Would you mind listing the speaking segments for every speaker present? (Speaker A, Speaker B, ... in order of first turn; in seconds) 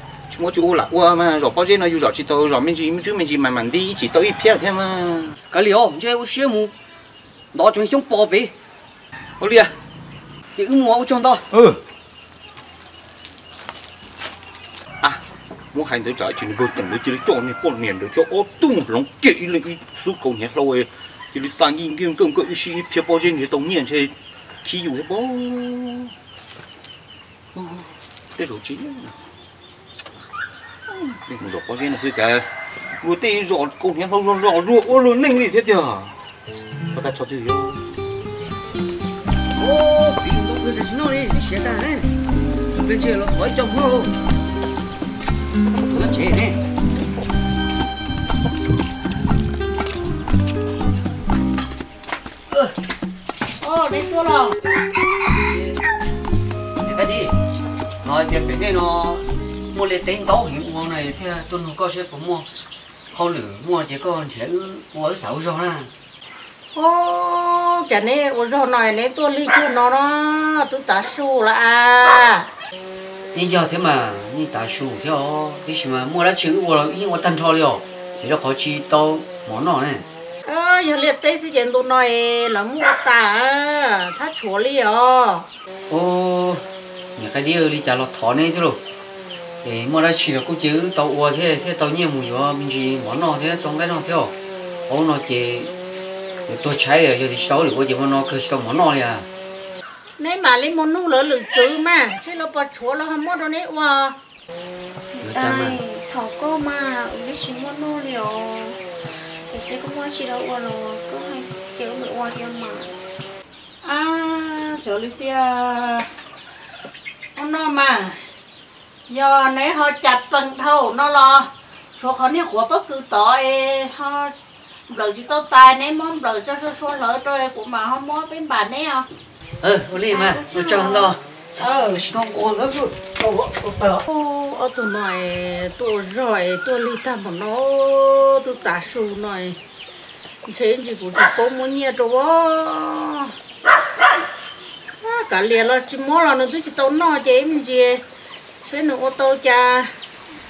Speaker A: 0.3-5.4, 9.4-9.8, 11.5-11.8, 15.0-26.1, 27.5-29.1, 30.9-36.1, 36.9-37.9
Speaker B: 5.5-6.7, 7.5-8.6, 10.6-11.5, 39.6-42.1, 42.7-44.1, 45.7-46.6, 52.5-52.7, 55.3-55.8, 56.8-57.3, 58.0-62.5, 63.1-65.9, 73.3-80.0, 85.9-88.8, 89.6-94.3, 94.9-95.7, 96.5-99.3, 105.2-105.8, 129.6-134.1
Speaker C: 53.6-54.6, 66.7-72.5, 80.5-85.5, 100.2-104.2, 113.8-116.1, 117.4-118.2, 119.1-124.3, 124.9-129.1, 134.1-139.6, 140.5-143.3, 145.0-148.0, 148.6-149.9
Speaker D: 105.1-113.0, 130.1-131.2